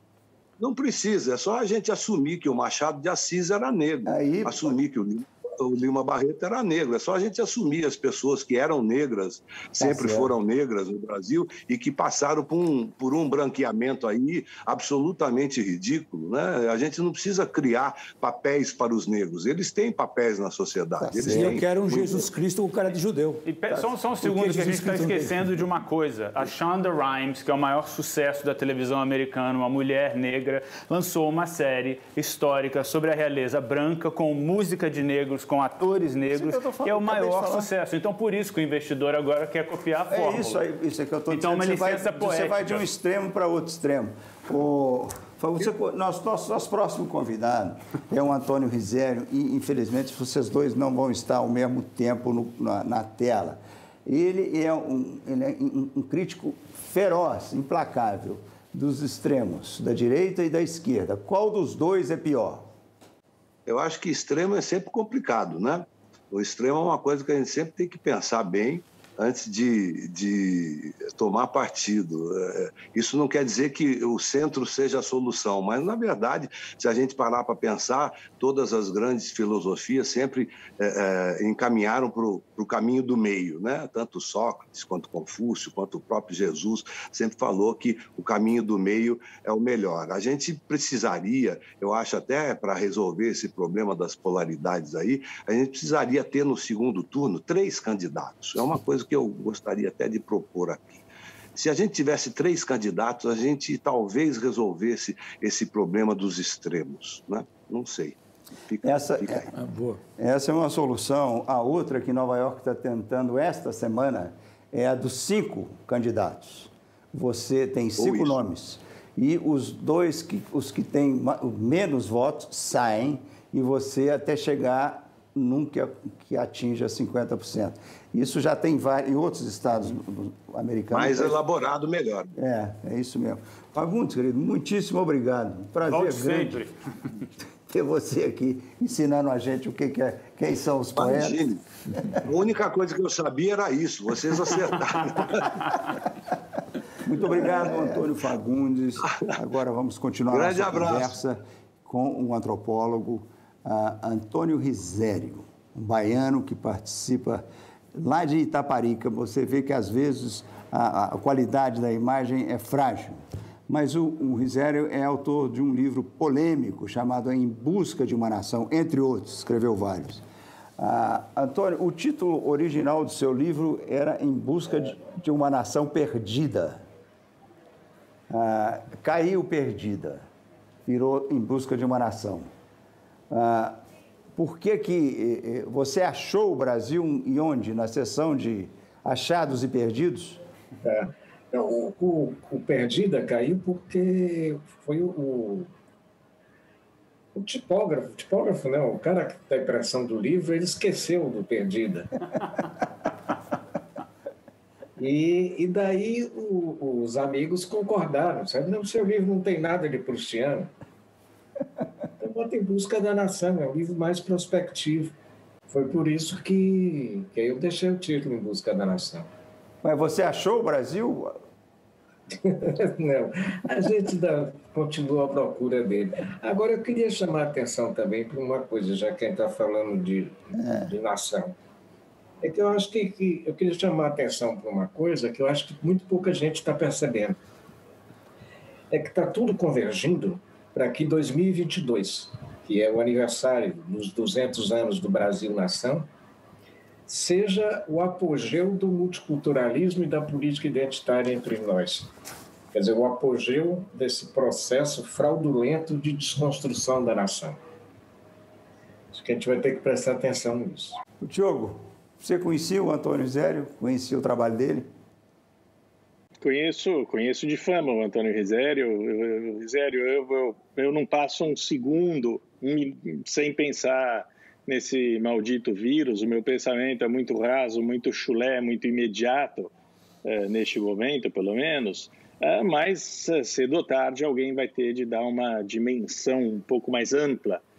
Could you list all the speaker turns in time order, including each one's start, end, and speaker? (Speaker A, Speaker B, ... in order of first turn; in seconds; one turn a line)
Speaker A: 0.6-22.3
Speaker B: 4.0-4.8
Speaker B: 9.8-10.3
Speaker B: 21.0-21.6
Speaker C: 21.2-23.4
Speaker D: 23.4-40.6
Speaker C: 24.1-25.7
Speaker B: 36.3-37.7
Speaker B: 40.1-62.6
Speaker D: 41.3-42.8
Speaker A: 63.6-101.0
Speaker A: 101.5-108.2
Speaker A: 108.7-109.5
Speaker B: 108.8-109.5
Speaker C: 109.5-110.0
Speaker B: 110.2-131.4
Speaker A: 118.0-118.3
Speaker A: 130.9-132.3
Speaker B: 132.3-136.6
Speaker D: 135.9-136.7
Speaker B: 137.7-141.4
Speaker A: 141.0-145.8
Speaker B: 147.0-170.2
Speaker A: 147.3-147.8
Speaker A: 150.3-151.1
Speaker B: 170.8-176.8
Speaker B: 178.3-180.2
Speaker B: 180.8-182.5
Speaker B: 183.3-183.8
Speaker B: 184.3-190.4
Speaker E: 190.8-195.7
Speaker E: 197.3-202.1
Speaker E: 205.0-210.7
Speaker E: 212.2-215.1
Speaker E: 215.7-219.3
Speaker B: 219.8-221.4
Speaker E: 222.3-231.5
Speaker B: 230.6-230.9
Speaker E: 232.4-237.4
Speaker E: 238.9-246.1
Speaker E: 247.1-252.1
Speaker E: 252.7-257.6
Speaker E: 259.1-260.9
Speaker B: 261.2-264.9
Speaker F: 266.4-279.7
Speaker F: 280.2-287.6